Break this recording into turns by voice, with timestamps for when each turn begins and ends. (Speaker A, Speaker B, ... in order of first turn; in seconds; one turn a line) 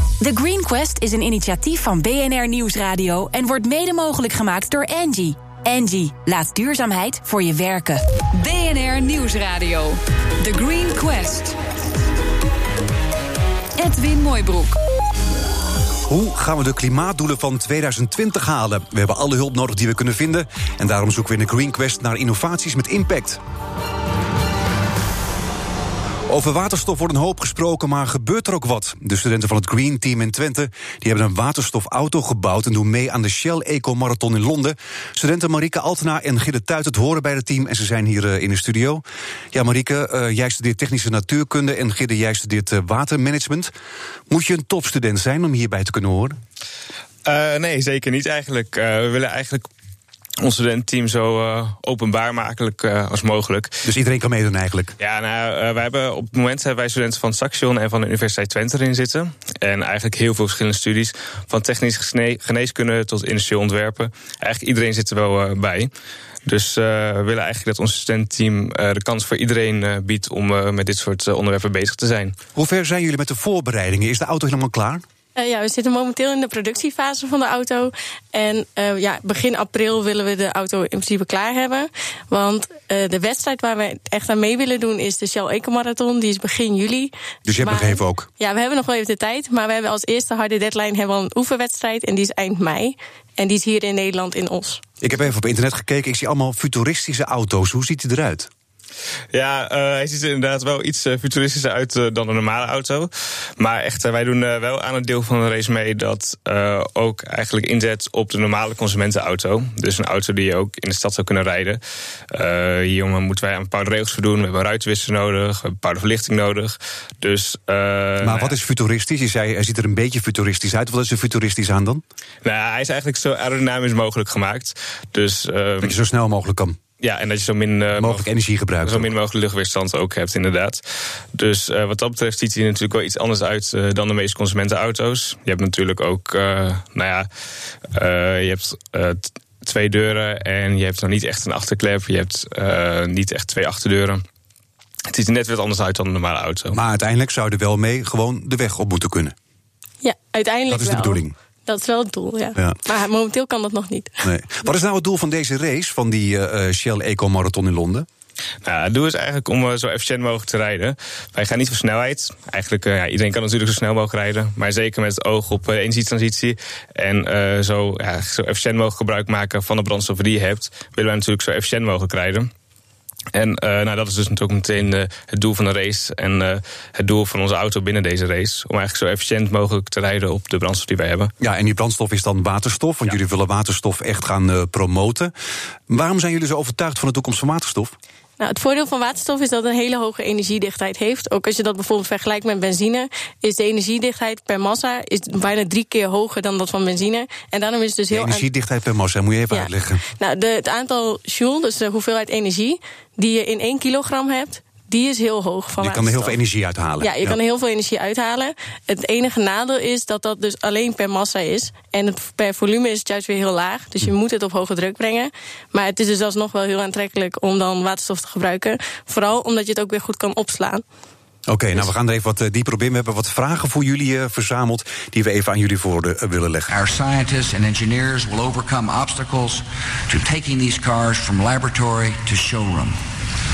Speaker A: 0.2-8.0
Speaker B: 8.3-11.6
Speaker B: 13.8-14.8
Speaker C: 16.1-23.4
Speaker C: 26.3-43.7
Speaker C: 44.3-46.4
Speaker D: 47.2-49.7
Speaker D: 50.4-53.7
Speaker C: 53.8-55.0
Speaker D: 55.0-65.9
Speaker D: 66.5-72.3
Speaker C: 72.5-75.0
Speaker E: 75.3-94.8
Speaker C: 87.4-88.3
Speaker C: 95.0-98.5
Speaker D: 99.3-111.8
Speaker D: 112.3-118.5
Speaker C: 118.2-122.0
Speaker D: 122.4-125.9
Speaker C: 125.8-126.8
Speaker D: 127.0-128.3
Speaker C: 127.9-129.1
Speaker D: 128.8-130.8
Speaker D: 131.3-137.3
Speaker D: 137.9-144.2
Speaker D: 145.1-146.8
Speaker C: 146.7-149.3
Speaker E: 150.0-154.2
Speaker C: 150.7-151.3
Speaker C: 154.2-158.1
Speaker D: 158.6-172.5
Speaker D: 173.3-181.3
Speaker C: 181.4-185.3
Speaker C: 185.9-187.9
Speaker E: 188.4-198.4
Speaker C: 198.1-200.0
Speaker E: 199.5-206.3
Speaker C: 205.8-207.4
Speaker E: 207.0-220.8
Speaker C: 221.5-226.7
Speaker F: 226.7-233.0